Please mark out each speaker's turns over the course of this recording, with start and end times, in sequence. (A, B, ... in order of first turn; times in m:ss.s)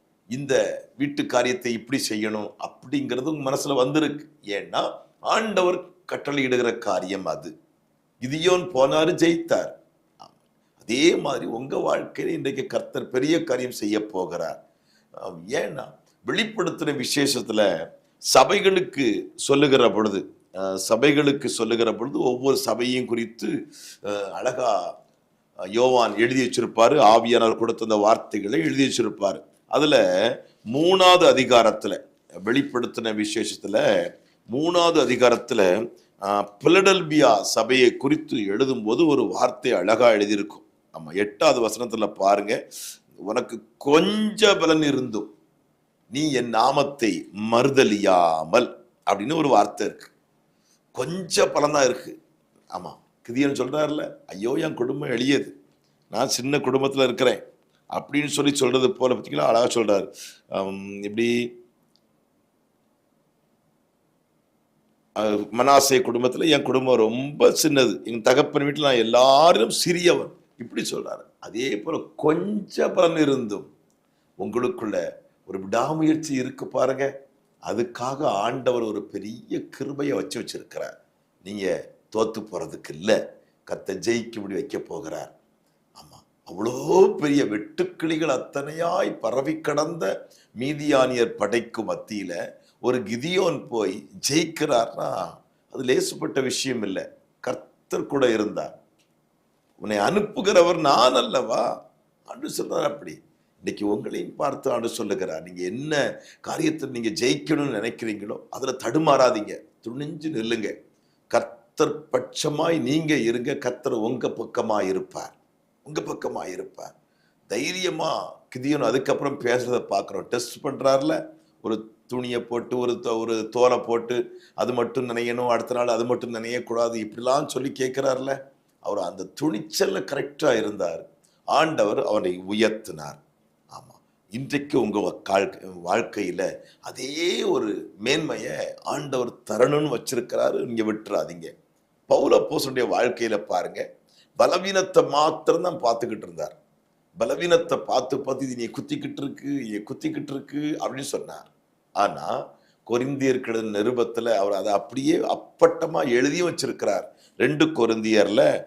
0:00.3-0:07.5 A
0:08.2-0:14.6 A
0:15.2-0:17.6 A
0:18.3-0:23.5 A
0:24.0-0:24.9 A
0:25.8-0:30.0 A
0:30.7-0:33.8 A
0:34.5-0:35.7 A
0:36.2-0:42.6 A
0:43.2-0:45.3 A
0:46.1-0:50.1 A
0:51.0-0:52.1 A
0:52.7-0:55.5 A
0:56.1-0:57.4 A
0:57.9-1:01.3 A
1:05.2-1:13.7 A
1:14.4-1:17.1 A
1:17.7-1:20.9 A
1:21.4-1:25.3 A
1:26.0-1:38.7 A
1:39.8-1:41.6 A
1:42.3-1:50.7 A
1:51.3-1:56.9 A
1:57.5-2:13.2 A
2:13.7-2:21.5 A
2:22.1-2:23.8 A
2:24.4-2:26.5 A
2:27.2-2:32.3 A
2:32.9-2:38.4 A